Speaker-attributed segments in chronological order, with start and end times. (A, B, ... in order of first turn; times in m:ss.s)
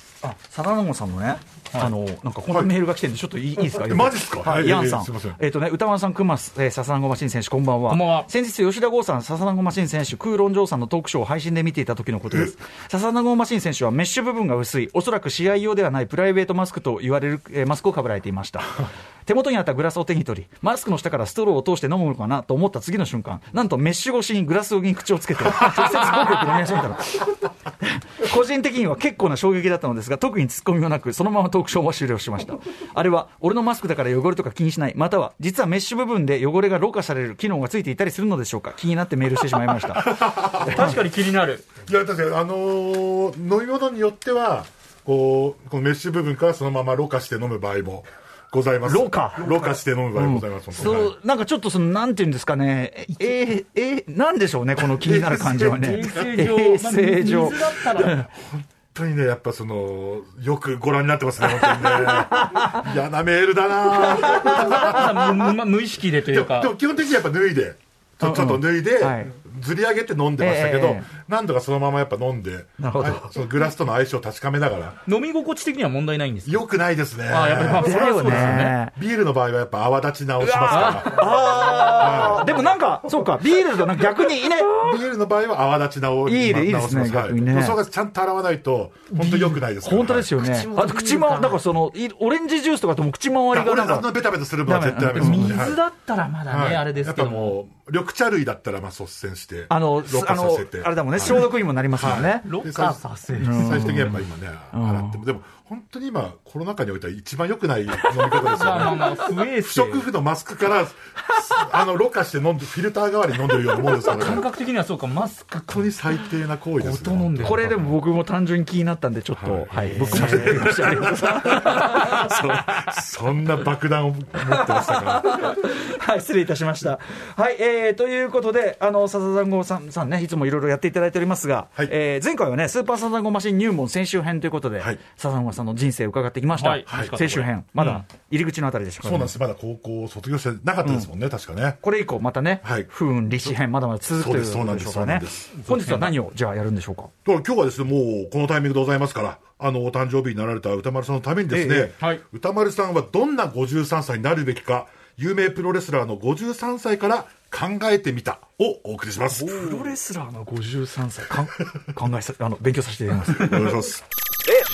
0:00.2-0:41.0 A
0:03.7-0:05.4 B
0:07.9-0:08.3 C
0:39.9-0:41.0 B
0:40.6-0:41.7 C
0:41.8-0:51.2 B
0:48.8-0:58.3 A
0:54.8-0:56.4 B
0:55.6-0:58.2 C
0:57.3-1:05.4 B
1:01.5-1:02.9 A
1:04.1-1:05.2 A
1:04.3-1:06.7 C
1:06.2-1:15.0 B
1:08.2-1:09.3 A
1:10.4-1:11.1 A
1:12.8-1:13.3 A
1:15.1-1:16.6 C
1:16.4-1:22.6 B
1:17.3-1:18.8 C
1:17.7-1:18.9 A
1:20.4-1:24.9 A
1:20.7-1:22.2 C
1:24.7-1:30.4 B
1:26.3-1:27.8 A
1:29.1-1:35.6 A
1:29.3-1:29.6 C
1:30.4-1:31.6 C
1:33.5-1:35.8 B
1:35.0-1:37.6 C
1:36.5-1:54.5 B
1:39.7-1:42.5 A
1:42.4-1:44.1 C
1:43.4-1:44.2 A
1:44.7-1:45.2 A
1:48.4-1:50.1 C
1:53.8-1:54.1 A
1:53.9-1:56.1 C
1:55.7-1:57.9 B
1:56.8-1:57.9 C
1:57.4-2:03.0 A
1:59.4-2:05.5 B
1:59.7-2:00.8 C
2:04.4-2:19.4 A
2:16.5-2:18.0 C
2:16.9-2:17.3 B
2:19.0-2:21.8 B
2:20.8-2:21.1 A
2:21.8-2:27.1 A
2:22.6-2:23.6 B
2:24.1-2:25.6 B
2:25.6-2:26.2 C
2:27.2-2:39.8 B
2:31.5-2:32.0 A
2:39.4-2:43.8 A
2:43.3-2:44.0 B